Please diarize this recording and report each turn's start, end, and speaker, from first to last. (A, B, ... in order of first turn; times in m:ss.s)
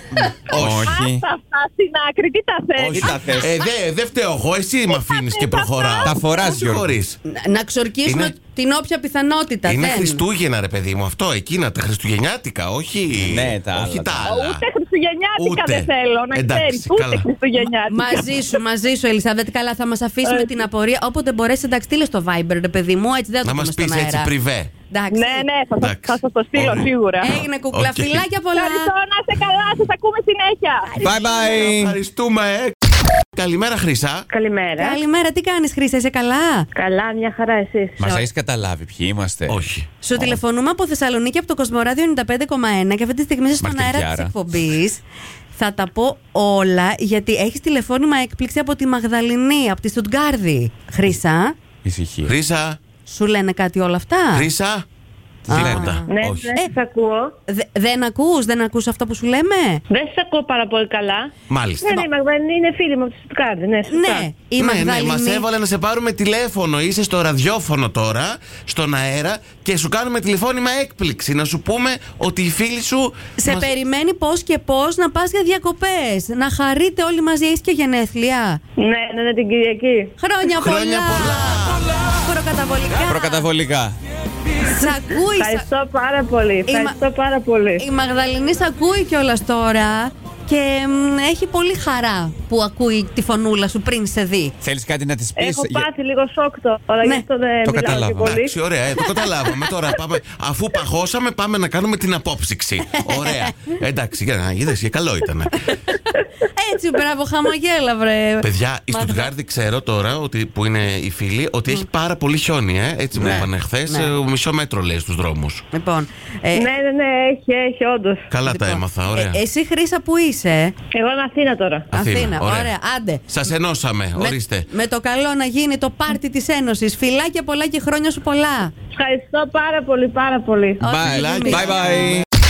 0:00.1-0:01.2 A
0:00.5-0:01.0 B
0:00.9-0:03.4 C
0:02.8-0:07.2 B
0:02.9-0:03.5 A
0:04.9-0:06.1 C
0:06.0-0:06.9 A
0:07.3-0:10.2 D
0:08.0-0:08.3 B
0:09.7-0:14.6 B
0:13.2-0:14.3 A
0:14.2-0:18.6 C
0:15.4-0:17.3 B
0:17.9-0:24.3 D
0:20.2-0:20.6 C
0:23.4-0:24.7 B
0:24.9-0:25.5 D
0:25.1-0:27.3 C
0:25.8-0:28.2 B
0:27.2-0:28.9 D
0:28.6-0:30.9 C
0:30.9-0:31.7 D
0:31.0-0:32.0 A
0:31.4-0:32.8 B
0:33.3-0:34.3 B
0:34.3-0:35.0 E
0:34.8-0:36.7 D
0:36.7-0:38.0 E
0:38.0-0:39.6 A
0:39.5-0:39.9 B
0:40.0-0:45.0 D
0:43.6-0:44.3 A
0:45.5-0:51.5 D
0:51.8-0:52.3 A
0:52.2-0:52.8 B
0:53.1-0:54.5 D
0:54.3-0:54.8 B
0:55.5-0:56.0 A
0:55.5-0:56.7 D
0:55.5-0:56.6 B
0:56.1-0:57.3 E
0:57.5-0:59.8 D
0:59.9-1:01.3 E
1:01.5-1:02.1 B
1:01.8-1:04.5 E
1:03.8-1:05.4 D
1:04.4-1:13.7 B
1:13.4-1:18.6 D
1:18.8-1:20.1 E
1:20.2-1:23.4 D
1:20.6-1:21.8 B
1:23.1-1:24.0 A
1:24.6-1:25.7 D
1:25.3-1:27.9 E
1:26.7-1:27.0 D
1:27.8-1:34.5 D
1:34.6-1:35.9 A
1:35.4-1:38.6 E
1:37.6-1:38.4 A
1:38.2-1:45.7 B
1:43.0-1:43.5 D
1:46.4-1:49.3 D
1:48.4-1:55.6 B
1:53.2-1:54.1 D
1:53.2-1:53.5 A
1:55.7-1:56.7 D
1:56.5-1:58.2 E
1:58.3-1:59.4 B
1:58.4-2:00.7 D
2:00.9-2:01.9 E
2:01.9-2:02.7 B
2:01.9-2:03.3 D
2:03.3-2:04.7 B
2:04.1-2:08.7 D
2:08.9-2:10.8 E
2:10.8-2:12.2 D
2:10.8-2:12.2 A
2:11.1-2:12.2 B